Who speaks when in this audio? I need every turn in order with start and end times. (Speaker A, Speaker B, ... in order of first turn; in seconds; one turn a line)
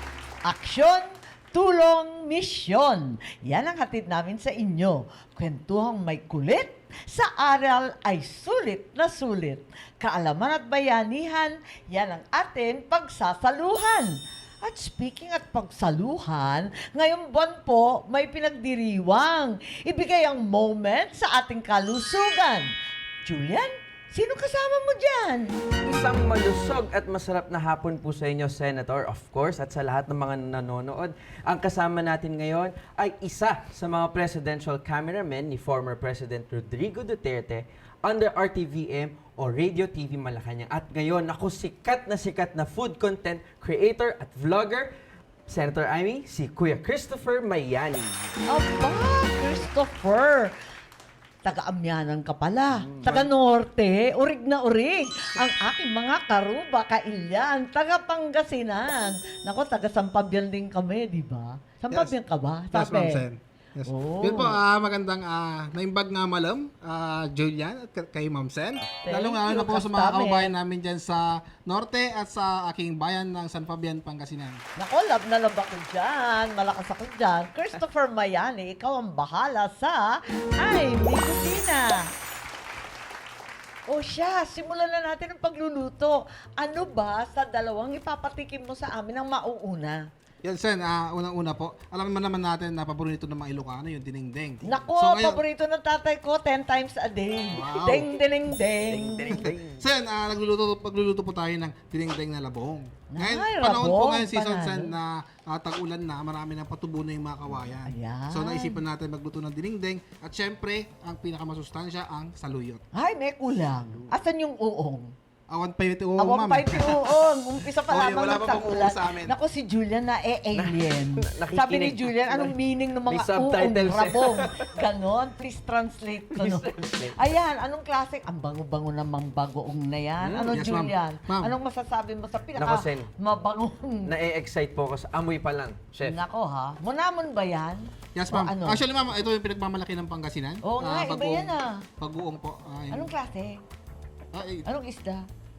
Speaker A: 0.4-22.7
Speaker A: 23.2-25.5
Speaker B: 25.8-44.9
Speaker B: 45.5-48.4
Speaker A: 48.5-50.5
Speaker A: 51.4-63.2
Speaker B: 52.7-53.3
Speaker C: 62.7-74.6
Speaker A: 63.9-64.6
Speaker A: 69.0-70.5
Speaker A: 74.8-82.0
Speaker A: 83.9-90.0
Speaker C: 90.4-95.4
Speaker A: 94.6-99.5
Speaker C: 97.5-98.1
Speaker B: 98.9-99.8
Speaker C: 99.3-112.8
Speaker A: 103.1-104.9
Speaker A: 107.8-108.8
Speaker A: 112.9-115.1
Speaker C: 115.5-117.1
Speaker A: 116.2-134.1
Speaker C: 117.9-119.3
Speaker B: 120.5-122.5
Speaker B: 123.1-124.8
Speaker B: 126.3-127.3
Speaker B: 130.2-130.6
Speaker C: 130.5-131.6
Speaker B: 132.6-133.1
Speaker B: 134.1-136.2
Speaker A: 136.1-138.8
Speaker C: 138.1-143.1
Speaker A: 140.6-141.8
Speaker A: 142.9-143.6
Speaker C: 144.3-144.7
Speaker A: 144.6-145.2